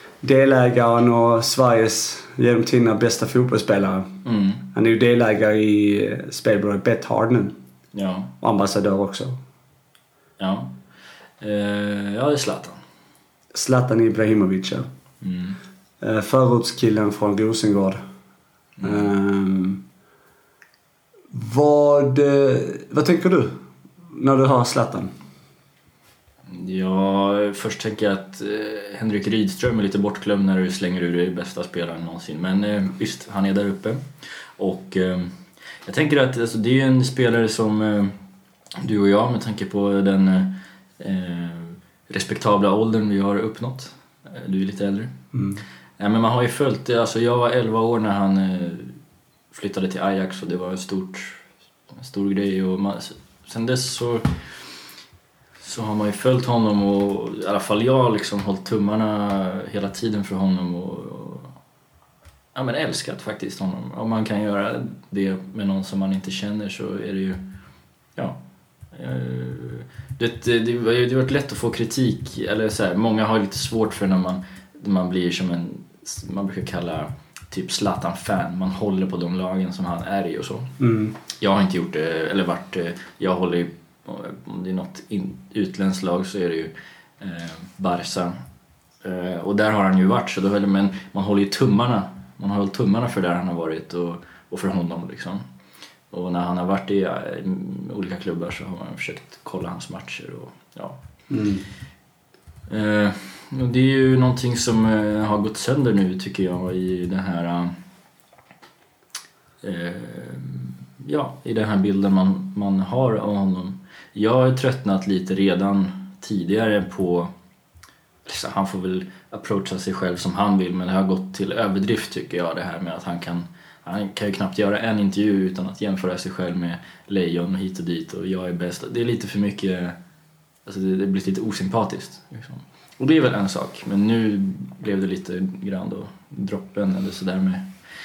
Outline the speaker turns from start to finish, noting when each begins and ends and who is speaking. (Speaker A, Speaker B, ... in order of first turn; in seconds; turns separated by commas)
Speaker A: 0.2-4.1, Speaker B: 4.2-4.6, Speaker A: 4.7-7.5, Speaker B: 7.9-8.3, Speaker A: 8.4-9.4, Speaker B: 10.4-10.8, Speaker B: 11.4-12.8, Speaker A: 13.5-14.9, Speaker B: 15.2-15.6, Speaker A: 16.0-18.0, Speaker B: 18.8-19.1, Speaker A: 18.8-19.8, Speaker A: 21.3-23.6, Speaker A: 24.1-25.1, Speaker B: 26.5-34.0, Speaker B: 34.6-38.2, Speaker B: 38.8-45.1, Speaker A: 45.3-45.6, Speaker B: 46.0-49.0, Speaker B: 49.5-51.4, Speaker B: 52.0-54.4, Speaker B: 55.6-61.5, Speaker B: 62.5-67.4, Speaker B: 68.9-80.7, Speaker A: 80.8-81.2, Speaker B: 81.4-88.4, Speaker B: 89.0-95.4, Speaker B: 96.1-101.0, Speaker A: 101.3-101.6, Speaker B: 102.7-107.8, Speaker B: 109.6-117.3, Speaker B: 118.3-130.0, Speaker B: 130.7-137.7